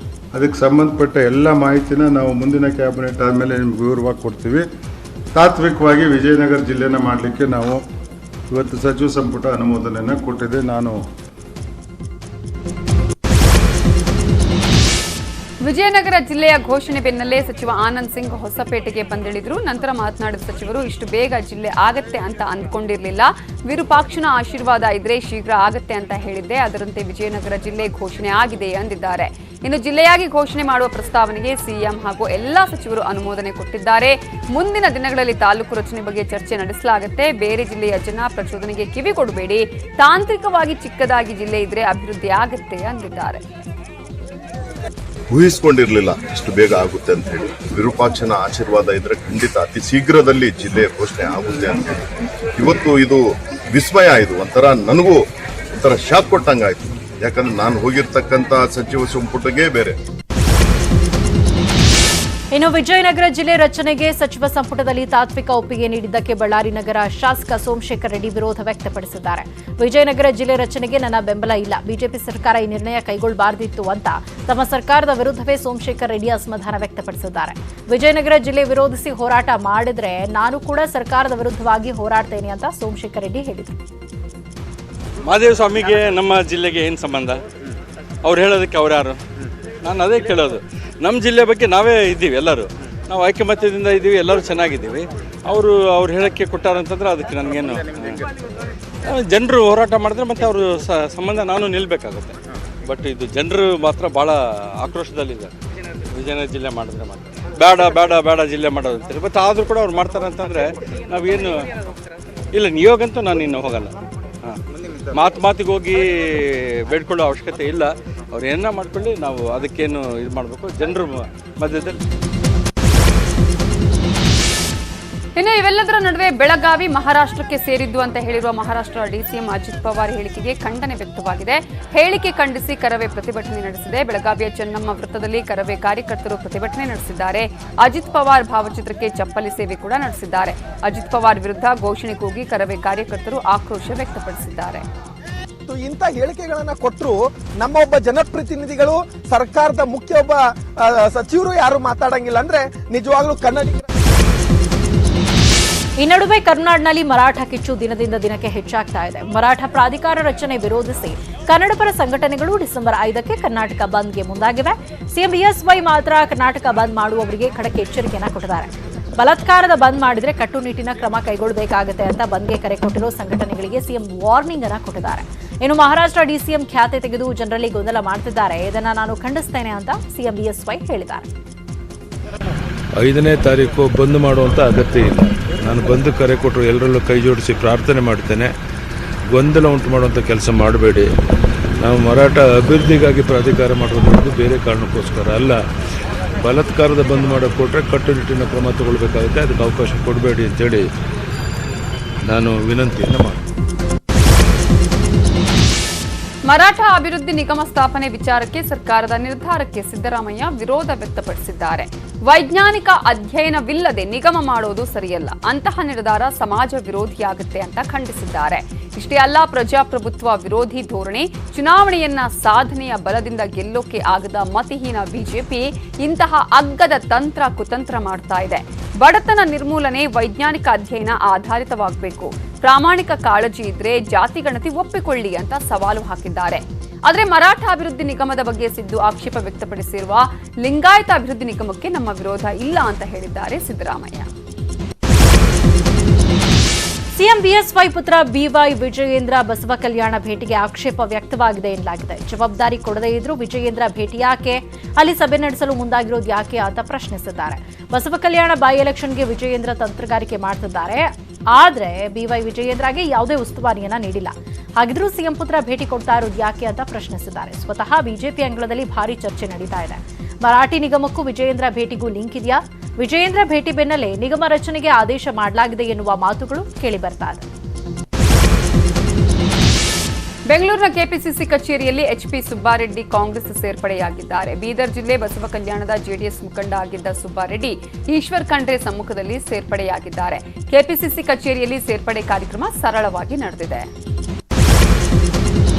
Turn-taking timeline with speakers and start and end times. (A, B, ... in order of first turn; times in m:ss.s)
0:00.3-0:04.6 A
0:05.4-0:07.8 A
0:08.5-0:11.0 A
0:15.6-0:43.4 B
0:45.3-0:52.1 C
0:52.6-0:55.2 C
0:55.8-1:00.0 C
1:02.5-1:23.8 D
1:25.3-1:27.4 E
1:28.3-1:29.2 E
1:29.9-1:38.2 E
1:39.1-1:42.4 E
1:42.9-1:45.5 E
1:46.2-1:51.6 E
1:52.6-1:54.6 E
1:55.2-1:56.1 E
1:56.9-2:02.0 E
2:05.4-2:24.8 B
2:25.7-2:33.8 F
2:36.0-3:01.3 D
3:03.0-3:08.5 G
3:09.3-3:11.1 G
3:11.8-3:15.6 G
3:16.4-3:20.8 G
3:22.3-3:23.4 G
3:26.5-4:04.3 B
4:07.1-4:37.4 D
4:40.5-4:53.9 B